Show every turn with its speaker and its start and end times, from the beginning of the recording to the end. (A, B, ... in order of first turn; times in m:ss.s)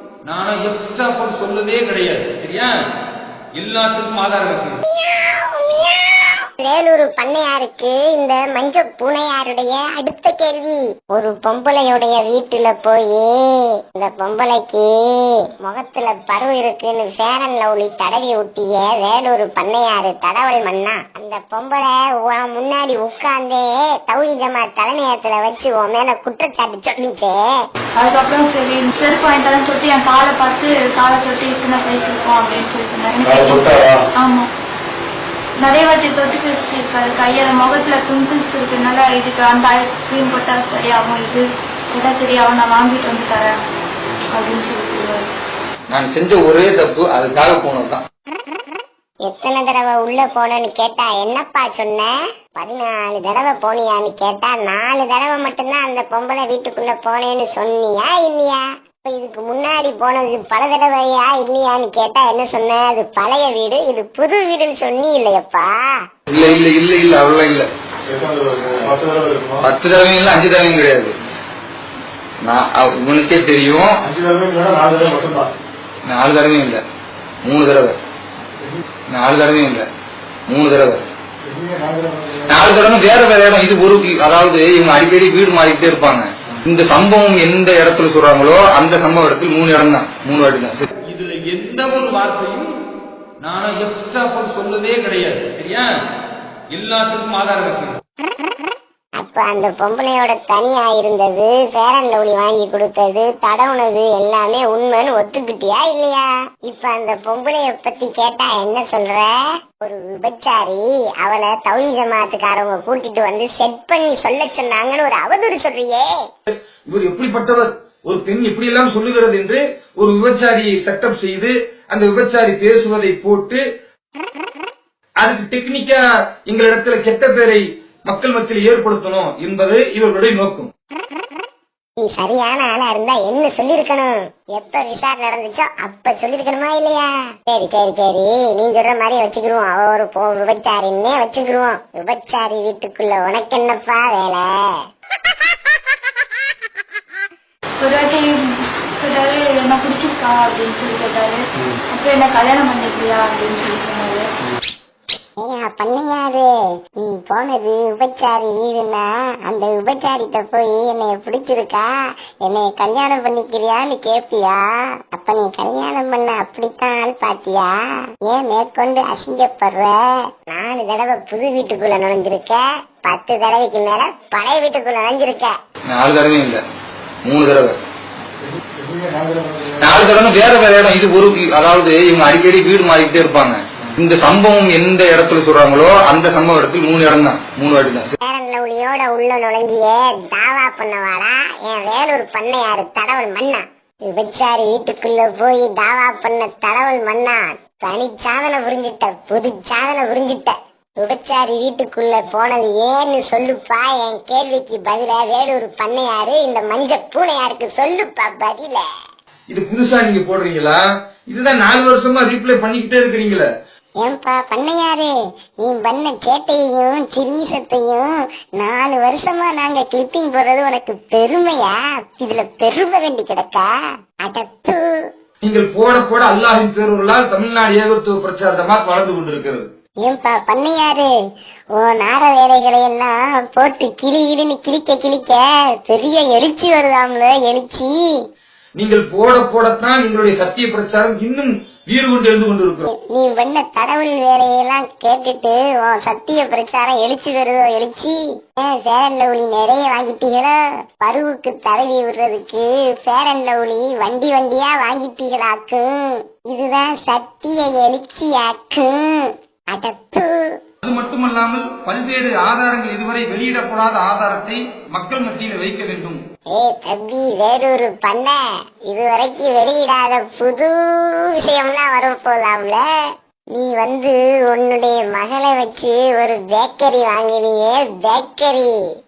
0:00.2-0:02.7 A
0:03.6-0:04.8 A
0:04.9-0:27.6 B
0:28.0-0:34.5 C
0:35.6-0:43.5 C
0:44.3-0:45.3 C
0:45.9-0:48.0 D
0:49.2-1:05.9 B
1:06.3-1:07.7 D
1:08.1-1:09.6 E
1:09.6-1:11.1 D
1:12.4-1:14.1 D
1:14.1-1:15.5 E
1:16.0-1:16.8 D
1:17.4-1:17.9 D
1:19.1-1:19.8 D
1:20.5-1:21.0 D
1:21.5-1:22.6 E
1:22.5-1:30.9 D
1:31.1-1:32.7 A
1:33.4-1:35.9 A
1:36.7-1:37.9 A
1:39.2-1:56.1 B
1:56.5-2:03.6 A
2:05.2-2:10.7 A
2:12.0-2:24.8 B
2:27.8-2:28.4 C
2:29.0-2:31.4 C
2:31.9-2:34.2 C
2:35.4-2:41.9 B
2:42.4-2:55.5 B
2:55.9-2:56.6 D
2:57.2-2:57.8 D
2:58.6-2:59.8 E
2:59.8-3:08.1 D
3:08.2-3:28.8 B
3:29.5-3:33.4 A
3:34.0-3:43.7 B
3:44.2-3:45.1 B
3:45.4-3:49.7 A
3:50.0-3:51.1 B
3:51.8-3:58.0 B
3:58.8-4:02.9 A
4:02.9-4:20.6 B
4:20.8-4:26.2 A
4:26.5-4:32.8 B
4:33.5-4:38.8 B